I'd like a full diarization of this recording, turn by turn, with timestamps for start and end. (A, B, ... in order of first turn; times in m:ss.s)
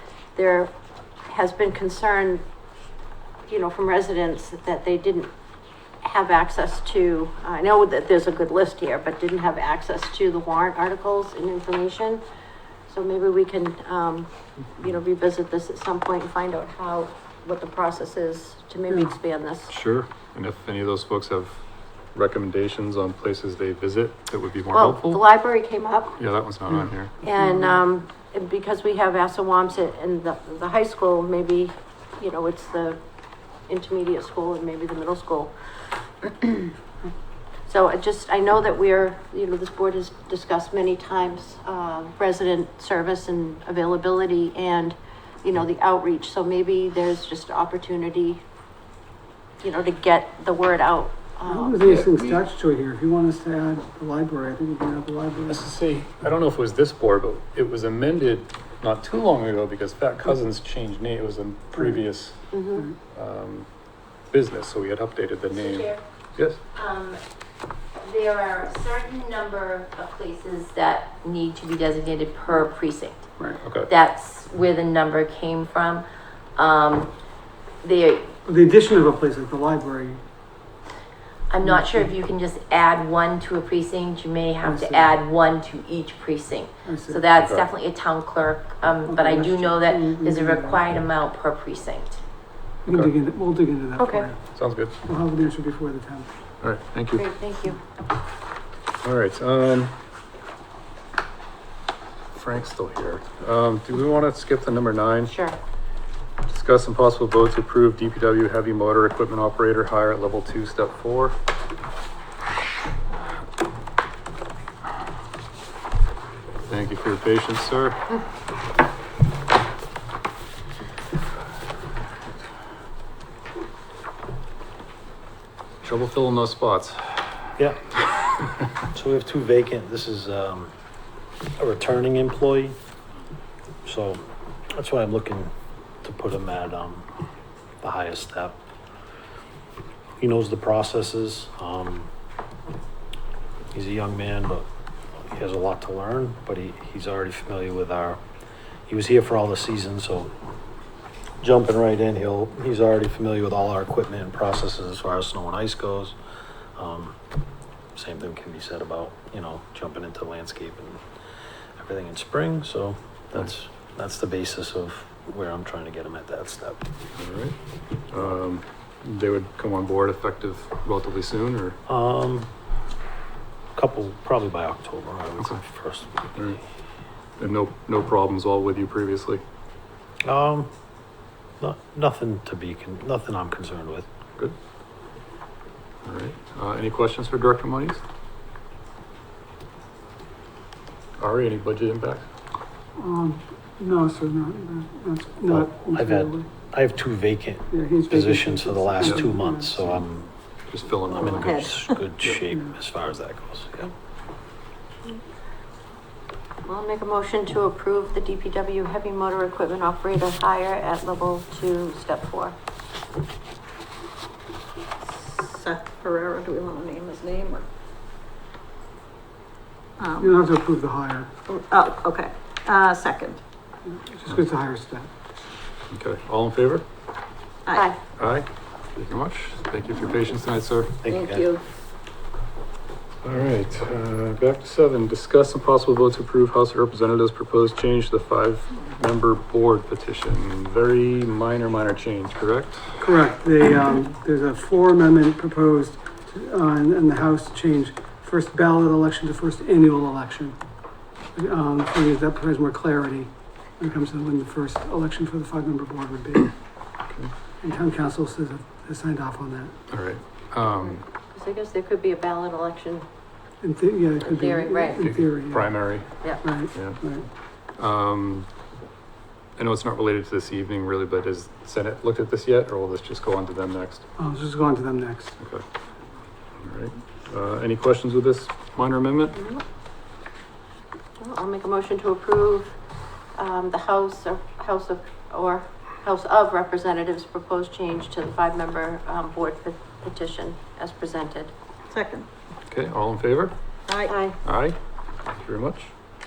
0:00.4-0:00.7 A
0:01.3-0:02.4 A
0:03.5-0:05.3 A
0:06.0-0:12.2 A
0:12.9-0:19.7 A
0:19.7-0:21.6 B
0:22.2-0:25.2 B
0:24.7-0:26.2 A
0:26.2-0:27.1 B
0:27.2-0:33.0 A
0:27.5-0:27.8 C
0:33.7-0:35.5 A
0:36.2-0:36.7 A
0:37.7-0:48.4 A
0:49.6-0:51.8 A
0:51.5-0:55.7 C
0:51.8-0:52.4 B
0:55.5-1:02.4 B
1:01.8-1:02.0 C
1:02.5-1:02.9 A
1:03.1-1:03.7 B
1:04.3-1:06.6 B
1:05.6-1:06.0 D
1:06.7-1:07.2 D
1:08.0-1:13.3 D
1:13.6-1:13.9 B
1:13.9-1:16.0 D
1:16.6-1:17.1 D
1:17.8-1:18.4 D
1:18.5-1:20.2 C
1:21.5-1:32.2 D
1:21.6-1:22.1 C
1:24.6-1:25.2 C
1:26.8-1:27.3 C
1:27.4-1:27.7 B
1:29.0-1:30.9 C
1:32.9-1:33.1 B
1:32.9-1:34.4 C
1:34.0-1:34.3 A
1:34.5-1:34.9 B
1:35.0-1:36.3 C
1:36.6-1:37.3 B
1:37.2-1:37.8 A
1:39.0-1:39.9 B
1:42.3-1:45.3 B
1:45.3-1:45.6 A
1:46.5-1:51.4 B
1:56.7-1:58.0 B
2:05.8-2:07.5 B
2:08.9-2:10.7 E
2:11.6-2:12.8 E
2:13.8-2:15.5 E
2:16.0-2:17.1 E
2:17.8-2:18.6 E
2:20.2-2:22.1 E
2:23.7-2:24.7 E
2:25.2-2:28.2 E
2:28.9-2:30.3 E
2:31.4-2:36.2 E
2:36.8-2:37.2 E
2:38.0-2:41.0 E
2:41.8-2:46.8 E
2:47.2-2:47.6 B
2:48.1-2:51.8 B
2:51.9-2:52.5 E
2:53.8-2:56.4 E
2:56.4-2:56.6 B
2:57.4-2:59.4 B
3:00.2-3:00.7 E
3:01.6-3:04.1 E
3:06.0-3:08.0 B
3:11.2-3:12.3 B
3:13.0-3:16.5 C
3:15.5-3:20.3 E
3:17.7-3:19.8 C
3:20.7-3:21.7 B
3:21.1-3:23.9 E
3:21.4-3:21.9 F
3:26.6-3:32.6 A
3:35.1-3:37.7 F
3:40.0-3:40.4 F
3:40.2-3:41.3 C
3:41.5-3:43.4 F
3:43.9-3:45.1 C
3:45.9-3:46.8 B
3:47.7-3:48.0 A
3:48.2-3:51.0 B
3:51.0-3:51.5 E
3:51.1-3:51.6 F
3:53.2-4:03.0 B
4:03.0-4:10.6 C
4:11.4-4:16.5 C
4:17.6-4:19.8 C
4:19.9-4:21.0 B
4:21.3-4:23.1 A
4:23.6-4:25.9 C
4:24.2-4:25.0 A
4:25.0-4:26.2 B
4:26.4-4:27.3 C
4:27.8-4:28.5 B
4:29.6-4:34.1 B
4:34.2-4:35.4 C
4:36.6-4:39.4 B
4:41.2-4:42.7 A
4:43.4-4:51.5 A
4:51.9-4:52.3 F
4:52.7-4:53.5 B
4:53.9-4:54.2 F
4:54.0-4:54.4 A
4:54.4-4:55.9 B